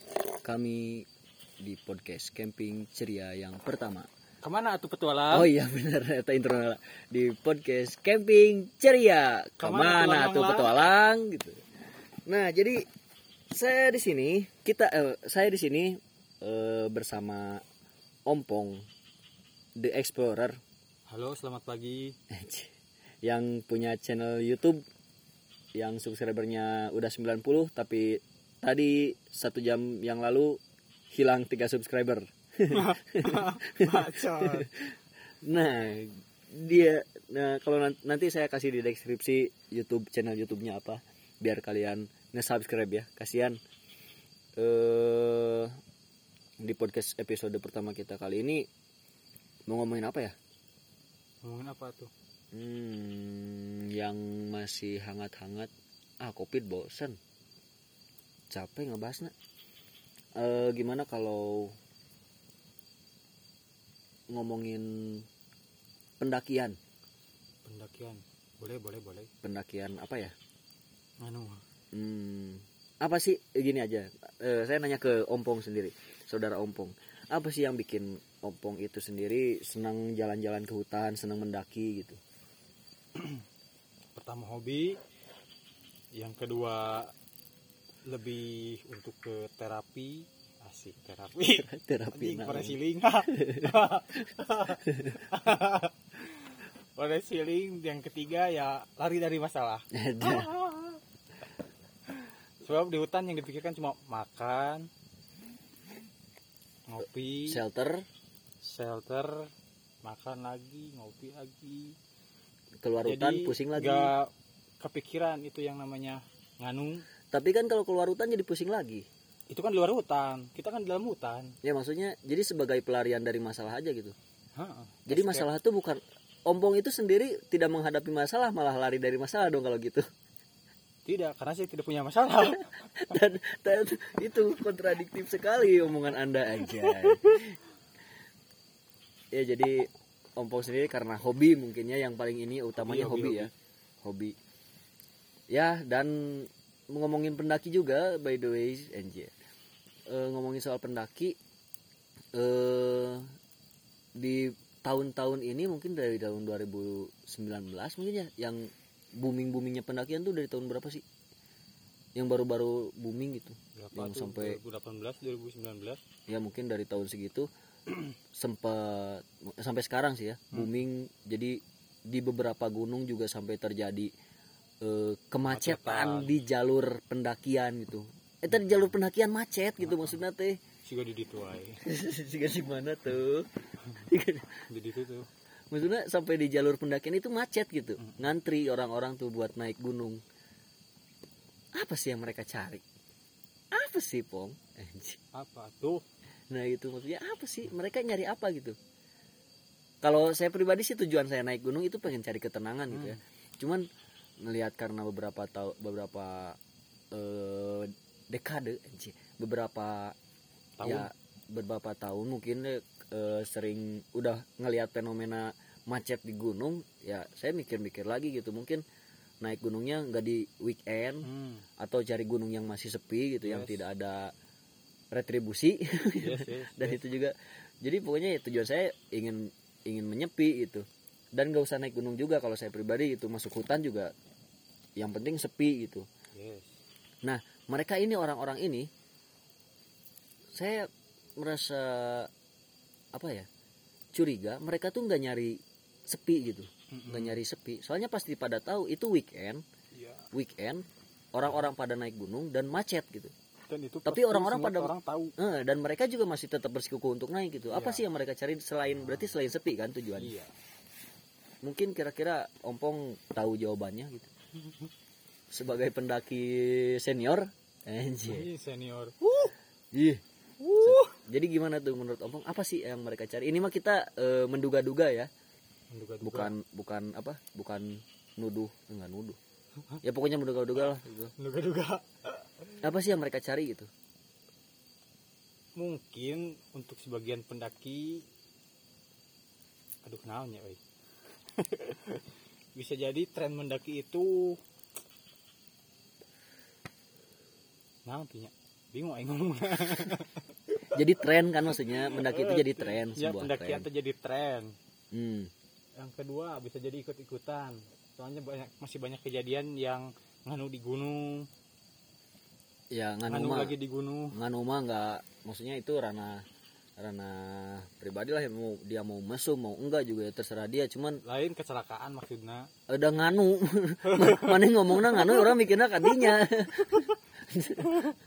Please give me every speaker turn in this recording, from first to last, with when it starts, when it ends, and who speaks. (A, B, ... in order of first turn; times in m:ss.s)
0:00.4-0:01.1 A
0:01.6-0:04.1 A
0:04.4-0:05.5 B
0:05.3-0:11.6 A
0:09.6-0:10.7 B
0:12.3-0:12.8 A
0:13.5-0:17.6 A
0:18.3-0:18.8 A
0:19.8-0:20.6 A
0:21.1-0:22.2 B
0:22.3-0:22.7 A
0:23.2-0:24.8 A
0:25.8-0:30.6 A
0:31.1-0:34.9 A
0:32.7-0:34.7 B
0:35.4-0:43.6 A
0:44.6-0:45.7 A
0:46.6-0:48.6 A
0:49.7-0:50.3 A
0:51.4-0:52.1 B
0:52.5-0:55.7 A
0:56.2-0:57.2 A
0:58.5-0:59.3 A
1:00.4-1:01.8 A
1:04.3-1:05.3 A
1:06.2-1:06.8 A
1:07.6-1:09.3 B
1:09.4-1:10.3 A
1:11.2-1:11.6 B
1:11.9-1:22.2 A
1:23.2-1:23.4 B
1:24.2-1:25.0 B
1:26.1-1:27.1 B
1:28.1-1:41.0 B
1:31.6-1:32.8 A
1:33.3-1:33.6 A
1:34.9-1:35.2 A
1:39.9-1:40.5 A
1:42.1-1:44.9 B
1:46.9-1:47.6 B
1:47.5-1:48.0 A
1:48.6-1:49.5 B
1:50.0-1:52.0 B
1:52.8-1:54.1 A
1:53.0-1:57.1 B
1:57.3-1:59.0 A
1:59.5-2:01.5 B
2:01.6-2:04.1 A
2:04.6-2:05.5 B
2:05.1-2:10.0 A
2:11.1-2:12.7 B
2:13.0-2:17.6 A
2:16.6-2:17.4 B
2:19.3-2:23.5 A
2:22.8-2:23.5 B
2:24.0-2:24.4 A
2:25.5-2:29.3 A
2:30.1-2:31.4 A
2:32.4-2:33.3 A
2:34.2-2:41.0 A
2:42.2-2:44.6 A
2:43.8-2:46.0 B
2:46.3-2:47.5 A
2:48.3-2:54.1 A
2:54.8-3:00.6 A
2:55.5-2:56.3 B
2:59.8-3:00.2 B
3:00.8-3:01.8 B
3:01.8-3:03.5 A
3:04.0-3:04.7 A
3:04.7-3:05.3 B
3:05.7-3:10.2 A
3:08.0-3:08.3 B
3:11.8-3:12.8 A
3:13.7-3:15.2 A
3:15.3-3:16.0 B
3:16.5-3:18.8 A
3:20.0-3:23.8 A
3:22.9-3:23.2 B
3:24.4-3:26.6 A
3:27.1-3:30.2 A
3:30.8-3:31.1 B
3:30.8-3:38.8 A
3:39.4-3:44.3 A
3:41.2-3:41.6 B
3:43.4-3:43.8 B
3:45.1-3:54.1 A
3:46.2-3:47.0 B
3:55.0-3:56.1 A
3:56.4-3:56.8 B
3:57.2-3:58.9 A
4:00.6-4:02.3 A
4:03.1-4:03.5 A
4:04.1-4:09.6 A
4:06.9-4:07.4 B
4:09.9-4:10.2 B
4:10.3-4:13.3 A
4:13.7-4:15.4 B
4:14.0-4:20.3 A
4:17.7-4:18.0 B
4:20.2-4:20.5 B
4:21.6-4:24.3 A
4:25.5-4:28.5 A
4:28.3-4:29.2 B
4:29.3-4:30.2 A
4:30.6-4:31.1 B
4:30.8-4:35.3 A
4:35.9-4:36.5 B
4:36.2-4:39.4 A
4:40.0-4:41.3 A
4:41.4-4:42.8 B
4:42.8-4:43.9 A
4:45.8-4:48.2 B
4:50.0-4:50.8 B
4:51.6-4:52.2 B
4:52.8-4:54.6 B
4:58.1-5:00.3 B
5:00.9-5:03.9 A
5:01.9-5:04.8 B
5:05.1-5:05.5 A
5:06.0-5:11.5 B
5:12.9-5:13.7 A
5:13.3-5:14.4 B
5:14.3-5:16.4 A
5:17.0-5:21.2 A
5:21.2-5:22.7 B
5:22.9-5:27.9 A
5:24.1-5:24.6 B